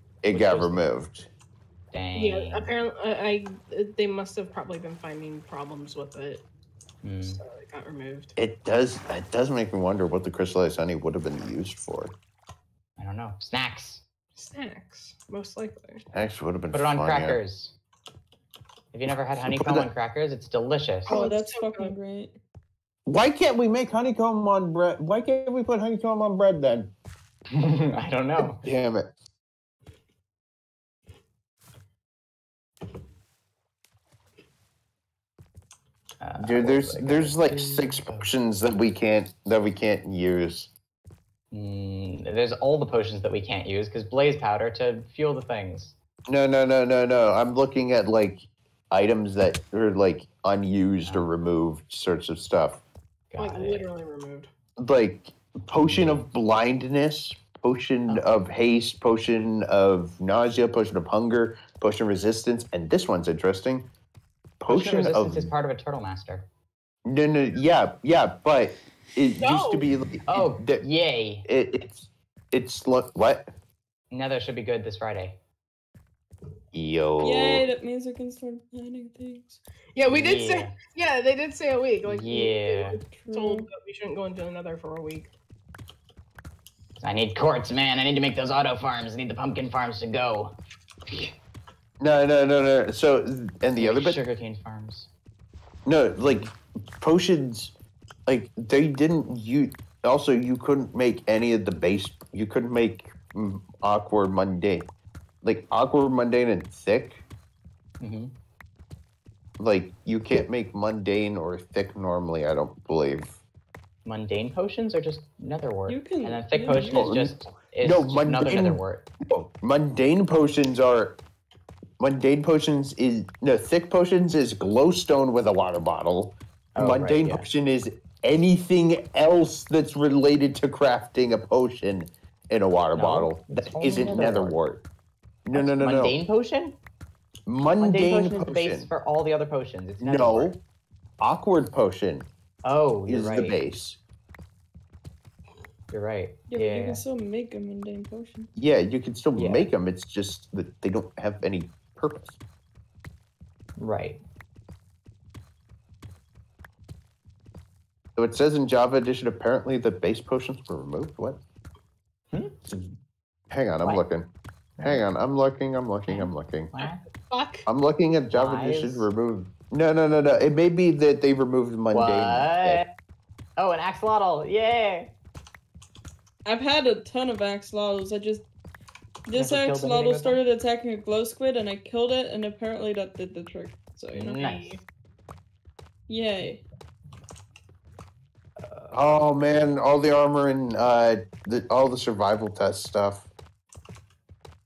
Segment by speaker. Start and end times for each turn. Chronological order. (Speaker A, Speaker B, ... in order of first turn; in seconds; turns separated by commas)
Speaker A: 0.2-1.3, Speaker B: 0.3-0.8, Speaker B: 1.9-2.7, Speaker C: 2.1-6.4, Speaker B: 7.0-7.4, Speaker C: 7.2-8.3, Speaker A: 8.4-12.2, Speaker B: 13.0-14.0, Speaker C: 14.3-16.0, Speaker A: 16.1-17.4, Speaker B: 16.7-17.7, Speaker B: 18.9-21.2, Speaker A: 19.4-19.9, Speaker C: 21.1-21.9, Speaker D: 21.1-22.4, Speaker A: 23.1-26.9, Speaker B: 27.5-28.6, Speaker A: 28.4-29.1, Speaker B: 36.2-38.3, Speaker A: 36.4-40.7, Speaker B: 41.5-46.0, Speaker A: 46.3-52.8, Speaker B: 53.3-53.9, Speaker C: 53.4-54.5, Speaker A: 54.8-63.9, Speaker B: 55.9-56.3, Speaker B: 58.1-58.4, Speaker A: 64.6-65.5, Speaker B: 64.7-66.5, Speaker A: 67.0-70.9, Speaker C: 69.4-69.9, Speaker B: 70.3-71.5, Speaker A: 71.5-73.5, Speaker B: 74.1-75.4, Speaker A: 76.7-77.7, Speaker D: 77.2-79.6, Speaker C: 80.0-85.3, Speaker B: 80.1-80.7, Speaker B: 82.0-83.0, Speaker D: 83.1-83.7, Speaker B: 87.0-90.5, Speaker B: 91.1-91.3, Speaker A: 92.0-94.2, Speaker B: 93.8-95.1, Speaker A: 95.9-97.7, Speaker A: 98.3-104.9, Speaker A: 105.4-107.2, Speaker B: 108.0-108.3, Speaker A: 109.6-113.4, Speaker B: 114.0-119.1, Speaker D: 115.9-117.0, Speaker A: 116.9-121.2, Speaker A: 122.0-134.8, Speaker B: 126.8-127.5, Speaker B: 132.9-134.6, Speaker A: 135.5-136.2, Speaker B: 135.5-136.8, Speaker A: 137.5-138.9, Speaker B: 137.8-140.5, Speaker A: 140.0-140.6, Speaker A: 141.2-142.3, Speaker B: 142.6-143.6, Speaker A: 143.1-144.0, Speaker B: 145.9-147.0, Speaker D: 146.5-148.5, Speaker A: 148.6-152.4, Speaker B: 149.4-149.7, Speaker B: 153.8-154.2, Speaker A: 158.2-161.4, Speaker B: 162.3-162.6, Speaker A: 163.5-164.3, Speaker B: 164.8-165.0, Speaker A: 164.8-166.7, Speaker B: 166.1-167.0, Speaker C: 166.8-167.7, Speaker A: 167.7-172.8, Speaker B: 168.3-169.1, Speaker B: 171.9-172.9, Speaker B: 173.6-175.1, Speaker D: 176.4-178.4, Speaker D: 179.3-184.4, Speaker B: 179.4-180.4, Speaker B: 184.2-184.8, Speaker C: 184.2-184.8, Speaker D: 186.1-186.6, Speaker B: 188.6-188.9, Speaker A: 188.9-193.3